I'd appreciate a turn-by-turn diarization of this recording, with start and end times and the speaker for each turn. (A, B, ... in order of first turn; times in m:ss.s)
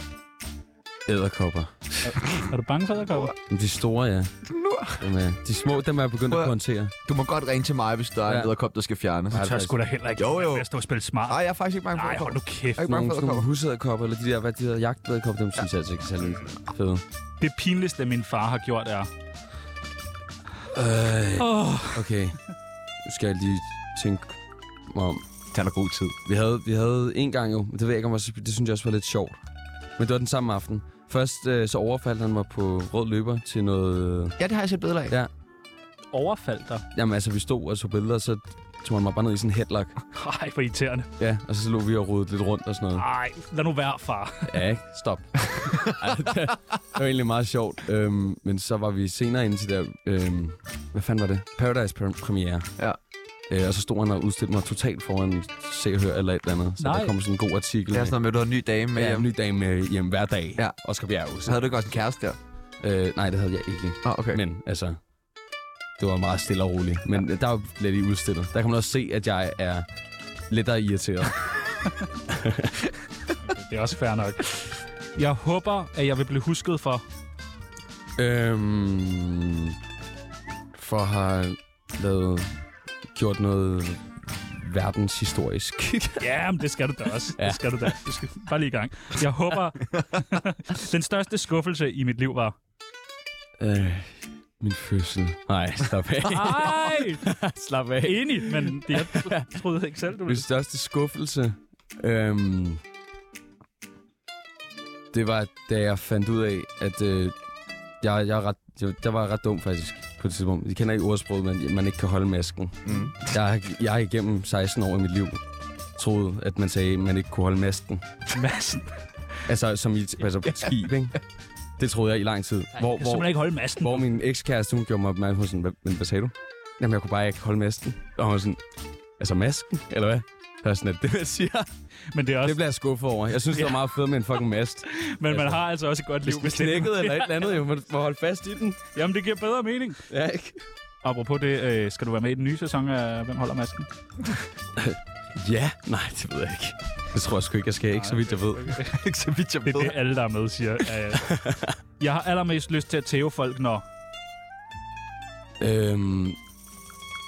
0:01.0-0:02.1 A
0:02.0-0:03.3 B
0:02.2-0:02.5 C
0:03.4-0:04.3 A
0:04.4-0:05.0 C
0:05.0-0:06.9 A
0:06.3-0:06.5 C
0:07.0-0:09.4 C
0:08.2-0:08.5 A
0:09.3-0:09.8 A
0:09.3-0:11.4 B
0:10.2-0:10.6 C
0:11.3-0:13.5 C
0:11.9-0:12.9 B
0:12.8-0:17.0 A
0:17.4-0:19.1 B
0:20.7-0:22.4 A
0:21.4-0:22.1 B
0:23.0-0:25.2 A
0:25.5-0:26.2 C
0:26.2-0:29.4 A
0:30.0-0:34.4 A
0:34.4-0:35.2 C
0:36.1-0:36.8 B
0:36.9-0:39.9 A
0:40.1-0:41.1 B
0:41.2-0:43.0 A
0:42.9-0:44.6 B
0:44.5-0:52.7 A
0:45.6-0:46.0 C
0:53.5-0:58.1 A
0:56.8-0:57.1 B
0:57.9-0:59.3 C
0:58.9-1:01.6 A
1:01.4-1:02.4 C
1:02.8-1:05.0 A
1:04.0-1:04.4 C
1:06.0-1:09.8 A
1:10.5-1:11.7 A
1:12.2-1:12.8 A
1:13.4-1:17.0 B
1:18.2-1:19.8 A
1:20.7-1:22.5 A
1:23.1-1:26.3 A
1:26.2-1:32.5 B
1:27.4-1:28.0 A
1:33.6-1:39.5 A
1:36.2-1:37.3 B
1:38.0-1:40.4 B
1:40.2-1:42.8 A
1:45.1-1:47.3 A
1:48.0-1:55.4 A
1:52.8-1:53.2 C
1:56.0-1:58.1 A
1:58.3-1:59.0 B
1:59.4-2:01.2 A
2:01.8-2:08.6 A
2:02.8-2:04.0 B
2:09.2-2:11.7 A
2:12.1-2:12.6 B
2:12.4-2:15.6 A
2:13.5-2:13.9 B
2:14.9-2:17.6 B
2:16.2-2:18.8 A
2:18.9-2:20.0 B
2:20.1-2:20.6 A
2:21.0-2:23.9 B
2:24.8-2:28.8 A
2:27.9-2:29.0 B
2:28.9-2:30.0 C
2:29.6-2:31.3 B
2:31.1-2:31.8 A
2:32.0-2:33.8 B
2:35.6-2:36.4 A